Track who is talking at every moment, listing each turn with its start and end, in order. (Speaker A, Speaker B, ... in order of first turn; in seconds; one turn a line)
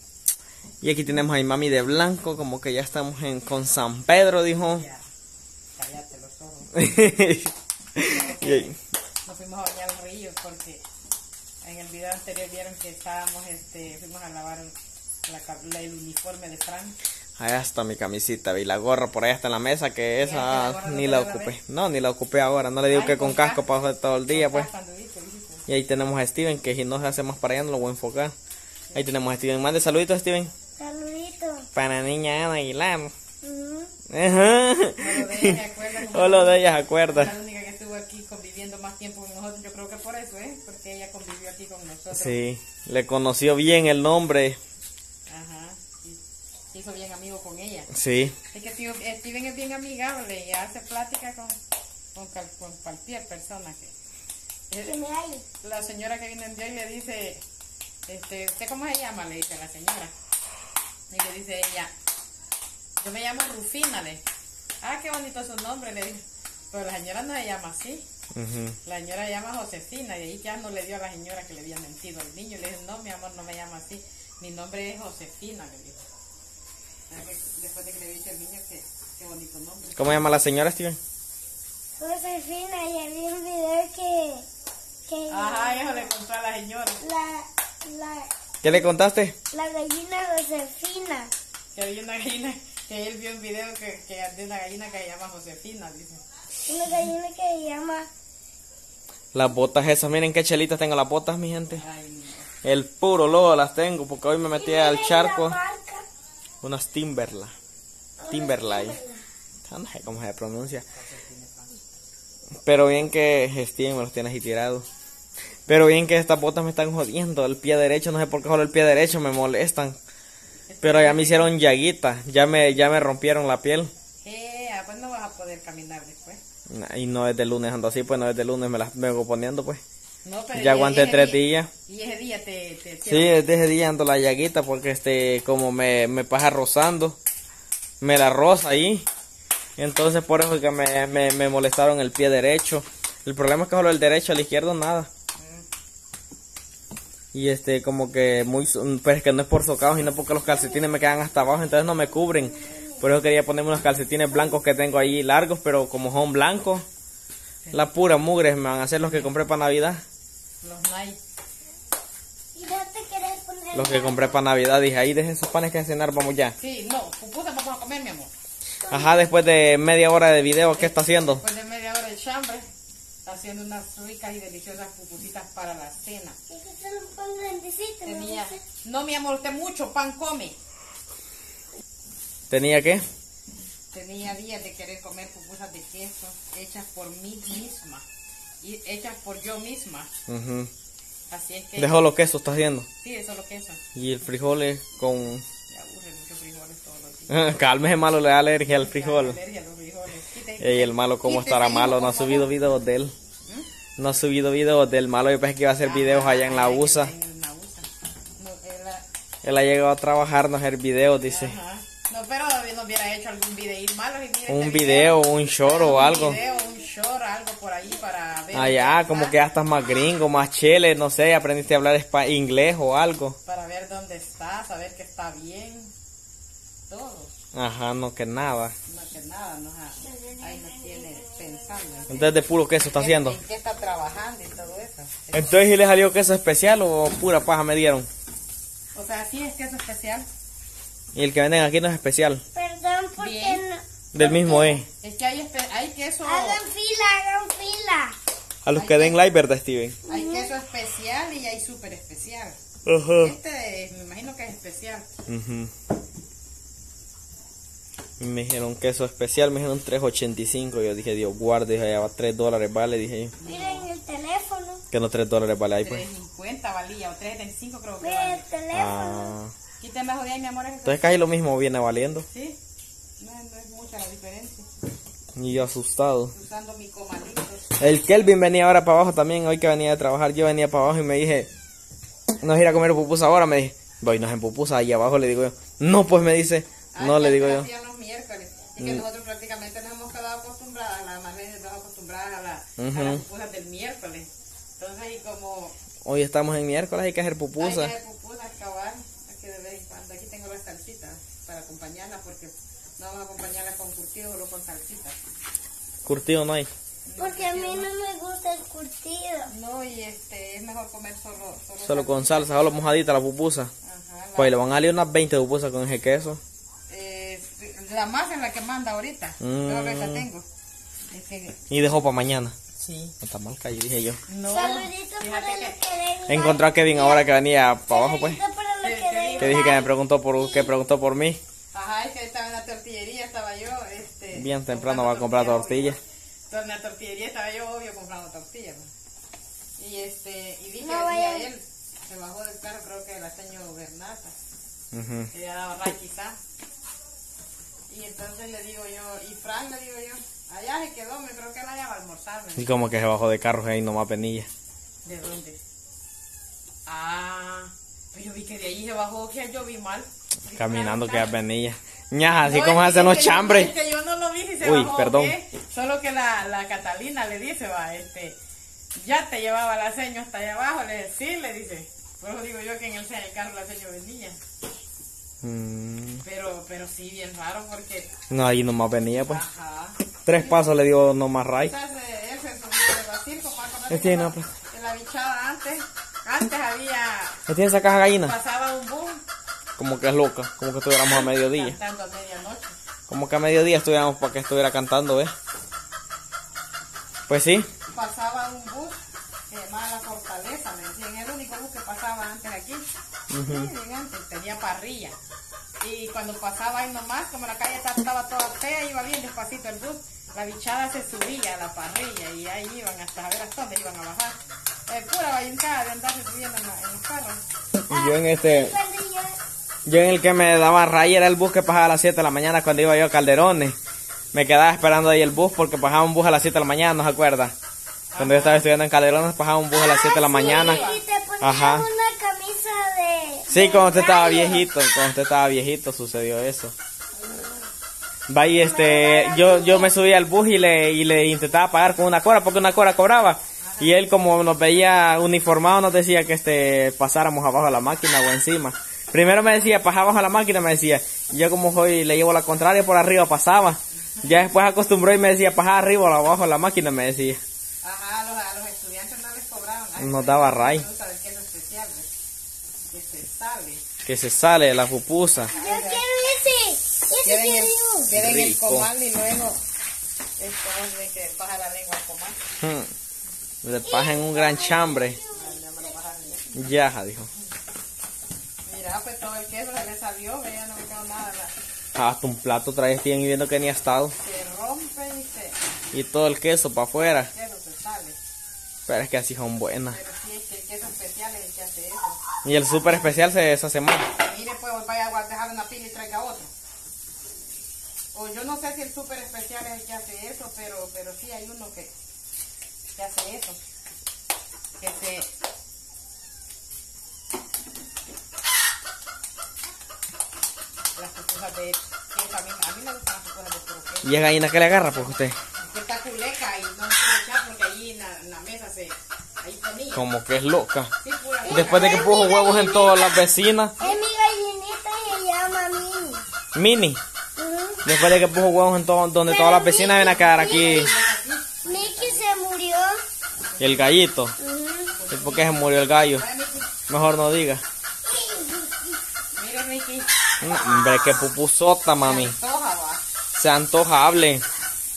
Speaker A: 0.8-4.8
Speaker B: 4.6-5.0
Speaker B: 5.8-6.7
Speaker A: 6.7-8.7
Speaker B: 8.0-8.7
Speaker B: 9.2-10.8
Speaker B: 11.6-14.7
Speaker B: 15.2-16.9
Speaker A: 17.4-24.7
Speaker B: 20.2-21.5
Speaker B: 22.9-23.6
Speaker B: 24.3-25.6
Speaker A: 25.7-28.3
Speaker A: 28.9-30.5
Speaker C: 30.8-31.7
Speaker A: 31.7-33.1
Speaker C: 33.4-33.9
Speaker A: 34.1-37.3
Speaker B: 35.0-42.4
Speaker A: 42.1-44.6
Speaker B: 45.3-46.2
Speaker B: 46.7-47.9
Speaker A: 47.9-48.4
Speaker B: 48.5-51.5
Speaker B: 52.1-53.9
Speaker B: 54.7-55.0
Speaker C: 54.8-55.5
Speaker B: 55.6-57.4
Speaker B: 58.1-60.1
Speaker B: 61.1-61.9
Speaker B: 63.0-64.2
Speaker B: 64.8-68.0
Speaker A: 68.3-68.8
Speaker B: 68.8-76.0
Speaker B: 77.1-80.2
Speaker A: 80.0-81.0
Speaker C: 82.0-84.5
Speaker C: 85.1-86.1
Speaker B: 85.3-87.0
Speaker C: 87.0-88.8
Speaker A: 88.6-89.3
Speaker C: 89.5-91.3
Speaker B: 91.7-96.2
Speaker C: 96.6-98.1
Speaker A: 99.3-101.8
Speaker B: 101.7-102.5
Speaker A: 102.6-105.6
Speaker C: 104.6-106.0
Speaker A: 106.6-107.5
Speaker C: 108.2-109.2
Speaker A: 108.3-109.0
Speaker A: 109.7-110.8
Speaker A: 112.6-114.9
Speaker A: 115.7-120.0
Speaker B: 120.7-121.5
Speaker A: 120.8-123.9
Speaker B: 124.2-126.4
Speaker A: 126.7-129.8
Speaker B: 130.2-133.4
Speaker A: 130.5-131.7
Speaker A: 133.1-137.2
Speaker A: 138.0-139.1
Speaker A: 139.8-145.1
Speaker B: 145.4-145.7
Speaker A: 147.3-156.8
Speaker A: 157.7-160.0
Speaker B: 159.0-159.3
Speaker B: 160.6-161.2
Speaker C: 162.5-164.4
Speaker A: 163.7-166.5
Speaker B: 166.6-168.3
Speaker C: 168.8-169.2
Speaker A: 168.9-171.4
Speaker B: 170.8-172.6
Speaker B: 173.2-176.4
Speaker C: 176.5-178.6
Speaker B: 178.0-180.6
Speaker A: 182.5-183.0
Speaker B: 183.9-188.0
Speaker B: 188.6-190.1
Speaker A: 190.3-190.7
Speaker B: 191.3-192.1
Speaker A: 191.8-192.9
Speaker B: 193.0-193.8
Speaker A: 193.9-195.4
Speaker B: 195.7-197.6
Speaker A: 197.3-199.4
Speaker B: 198.7-202.5
Speaker A: 200.6-203.1
Speaker A: 204.0-207.1
Speaker B: 205.8-207.9
Speaker B: 208.4-209.0
Speaker A: 209.4-211.6
Speaker B: 211.2-219.4
Speaker A: 214.5-216.4
Speaker A: 218.5-223.4
Speaker B: 223.4-225.9
Speaker B: 226.9-227.3
Speaker A: 227.5-228.7
Speaker B: 228.9-232.3
Speaker C: 230.1-231.2
Speaker A: 232.1-233.4
Speaker B: 232.9-235.6
Speaker A: 235.3-238.1
Speaker B: 238.9-240.3
Speaker A: 241.1-242.4
Speaker C: 242.5-243.8
Speaker B: 243.2-243.6
Speaker A: 244.1-244.9
Speaker B: 244.2-246.6
Speaker C: 246.2-248.2
Speaker A: 248.6-250.0
Speaker B: 248.7-249.2
Speaker C: 250.1-250.5
Speaker B: 250.1-252.6
Speaker A: 252.8-253.3
Speaker B: 253.2-255.1
Speaker A: 255.3-255.7
Speaker A: 258.2-263.3
Speaker B: 263.4-263.9
Speaker C: 263.4-264.8
Speaker A: 264.9-266.0
Speaker B: 265.8-268.5
Speaker C: 268.0-269.3
Speaker A: 268.7-269.5
Speaker B: 269.8-271.2
Speaker A: 270.9-272.2
Speaker B: 272.3-272.6
Speaker B: 273.2-274.7
Speaker A: 275.4-276.3
Speaker B: 276.3-277.8
Speaker A: 277.8-281.5
Speaker A: 282.4-287.7
Speaker B: 286.9-295.7
Speaker A: 292.8-293.2
Speaker A: 296.0-297.9
Speaker B: 297.6-305.2
Speaker A: 306.0-306.7
Speaker B: 307.1-307.9
Speaker C: 307.2-309.5
Speaker B: 309.5-312.8
Speaker A: 311.8-313.7
Speaker B: 313.8-314.6
Speaker A: 314.4-316.4
Speaker B: 316.9-320.4
Speaker A: 319.4-320.3
Speaker B: 321.1-321.6
Speaker A: 321.7-322.5
Speaker B: 322.8-323.1
Speaker A: 323.2-324.2
Speaker B: 324.3-325.8
Speaker C: 324.5-327.3
Speaker A: 326.3-328.4
Speaker C: 327.9-330.7
Speaker B: 328.8-329.8
Speaker A: 329.4-331.4
Speaker B: 331.7-338.9
Speaker A: 334.3-336.0
Speaker B: 339.8-344.3
Speaker C: 340.8-341.5
Speaker A: 344.9-345.3
Speaker B: 345.3-346.4
Speaker B: 347.9-352.7
Speaker A: 352.6-354.5
Speaker B: 355.0-355.6
Speaker B: 356.9-361.4
Speaker A: 360.5-363.7
Speaker B: 362.4-368.4
Speaker A: 364.6-365.3
Speaker B: 368.9-374.4
Speaker A: 375.4-376.2
Speaker B: 376.2-378.1
Speaker A: 378.3-379.4
Speaker B: 379.2-380.8
Speaker A: 380.2-381.7
Speaker B: 381.6-387.4
Speaker A: 383.9-384.5
Speaker A: 387.5-388.3
Speaker B: 388.2-389.2
Speaker A: 389.8-391.8
Speaker B: 391.1-392.8
Speaker A: 393.1-395.3
Speaker A: 397.3-397.7
Speaker B: 397.9-405.1
Speaker A: 403.3-403.7
Speaker B: 405.8-417.4
Speaker A: 417.8-418.8
Speaker C: 417.9-419.4
Speaker A: 419.9-423.8
Speaker A: 424.3-427.5
Speaker B: 428.1-428.7
Speaker A: 428.2-430.9
Speaker C: 429.7-434.7
Speaker B: 430.3-431.0
Speaker A: 431.4-431.9
Speaker A: 433.5-436.7
Speaker C: 437.2-437.6
Speaker A: 438.3-457.4
Speaker C: 438.6-439.9
Speaker B: 443.6-443.9
Speaker B: 457.8-462.1
Speaker A: 460.0-460.8
Speaker B: 462.9-463.8
Speaker A: 464.0-465.5
Speaker B: 465.5-466.1
Speaker C: 465.5-468.1
Speaker B: 467.2-469.6
Speaker A: 468.1-468.9
Speaker B: 470.4-472.4
Speaker A: 472.6-472.9
Speaker A: 473.6-475.2
Speaker C: 473.8-475.6
Speaker B: 475.3-476.6
Speaker A: 476.5-477.3
Speaker B: 478.6-481.5
Speaker A: 481.9-484.1
Speaker B: 484.2-485.6
Speaker A: 485.9-487.3
Speaker B: 486.9-488.2
Speaker A: 488.9-490.0
Speaker B: 489.9-492.2
Speaker A: 492.4-494.1
Speaker B: 494.1-496.5
Speaker B: 498.1-501.9
Speaker B: 502.9-503.6
Speaker B: 504.8-505.3
Speaker B: 510.9-520.0
Speaker A: 514.0-515.4
Speaker A: 519.9-520.9
Speaker B: 521.0-522.1
Speaker C: 521.4-523.2
Speaker A: 521.5-523.8
Speaker C: 523.8-526.2
Speaker A: 526.5-527.0
Speaker C: 527.4-527.9
Speaker A: 527.8-530.9
Speaker C: 529.2-530.9
Speaker B: 530.0-532.3
Speaker C: 531.6-533.0
Speaker B: 533.5-533.9
Speaker A: 533.6-534.4
Speaker C: 534.4-535.0
Speaker B: 534.9-536.7
Speaker A: 535.1-536.2
Speaker A: 536.9-537.6
Speaker C: 538.0-539.0
Speaker B: 539.3-541.2
Speaker A: 540.4-542.4
Speaker B: 542.0-543.0
Speaker A: 543.3-544.4